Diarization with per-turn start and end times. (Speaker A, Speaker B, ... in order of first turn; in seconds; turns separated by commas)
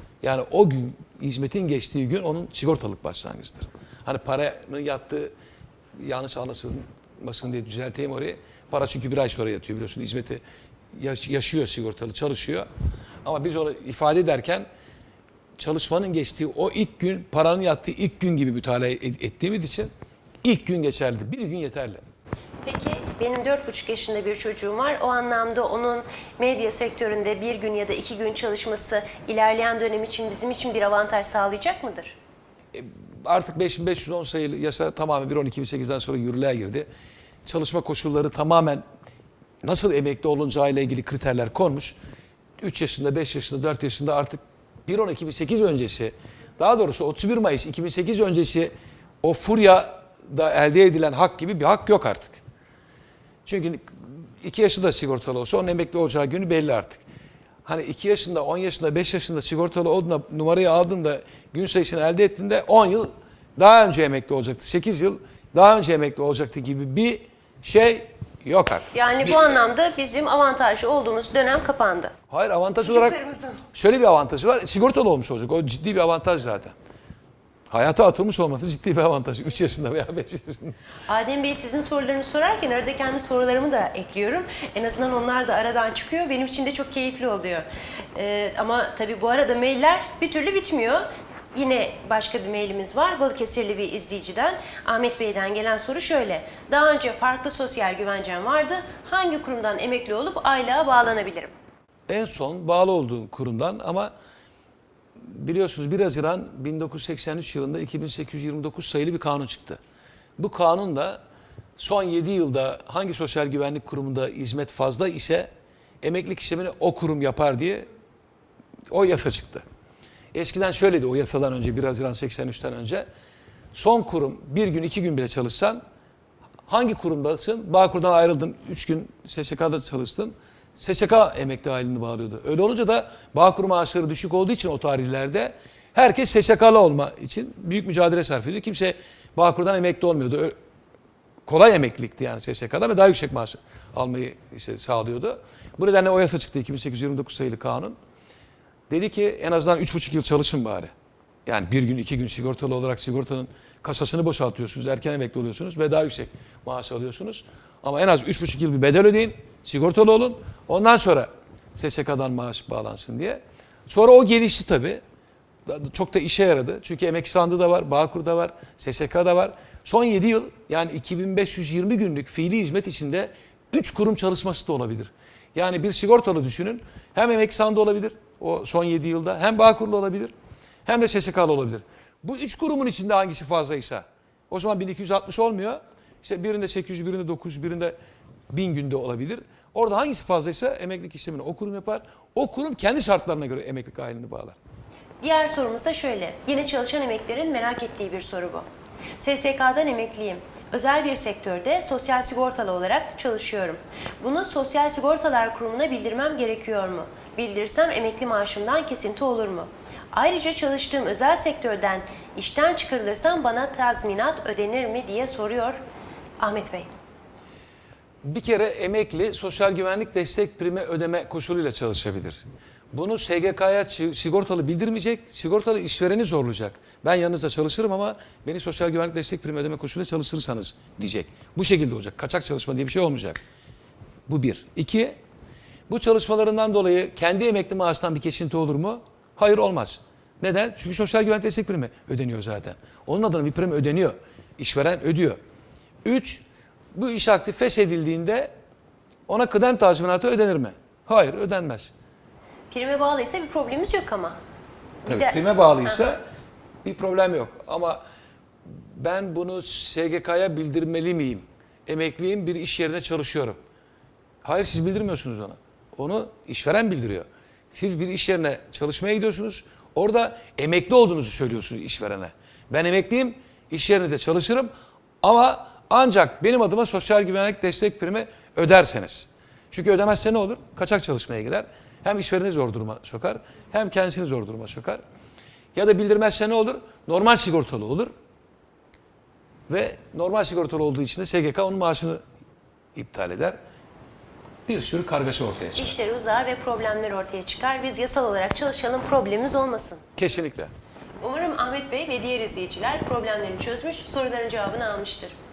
Speaker A: 0.2-5.3, Speaker A: 6.0-10.4, Speaker A: 10.9-12.7, Speaker A: 13.2-14.7, Speaker A: 15.6-19.9, Speaker A: 20.4-22.0, Speaker B: 22.6-32.1, Speaker A: 32.7-36.9, Speaker A: 37.4-38.8, Speaker A: 39.6-42.0, Speaker A: 42.6-52.4, Speaker A: 53.5-57.0, Speaker A: 57.6-69.6, Speaker B: 68.9-72.1, Speaker A: 72.3-73.2, Speaker B: 72.8-73.6, Speaker A: 73.7-76.7, Speaker A: 77.7-80.7, Speaker B: 81.1-101.5, Speaker A: 102.1-104.1, Speaker A: 105.2-109.8, Speaker A: 110.4-111.2, Speaker A: 111.8-115.5, Speaker A: 116.0-117.9, Speaker A: 118.9-119.6, Speaker A: 120.3-123.1, Speaker A: 123.7-125.8, Speaker A: 126.7-140.5, Speaker A: 141.4-147.9, Speaker A: 148.9-150.9, Speaker A: 151.4-165.0, Speaker A: 165.7-180.3, Speaker A: 180.8-187.9, Speaker A: 188.5-194.6, Speaker B: 195.2-198.7, Speaker B: 199.2-215.8, Speaker B: 216.4-216.9, Speaker A: 218.2-233.4, Speaker A: 234.3-235.2, Speaker A: 235.9-245.4, Speaker A: 246.0-248.5, Speaker A: 249.3-251.9, Speaker B: 252.7-254.4, Speaker B: 255.0-255.4, Speaker A: 255.1-256.2, Speaker A: 256.8-258.0, Speaker A: 258.6-263.6, Speaker A: 264.4-274.7, Speaker A: 275.2-285.0, Speaker A: 285.7-288.1, Speaker A: 289.7-292.2, Speaker A: 292.9-293.6, Speaker A: 294.6-295.9, Speaker B: 295.8-300.0, Speaker A: 300.2-300.7, Speaker B: 301.2-305.3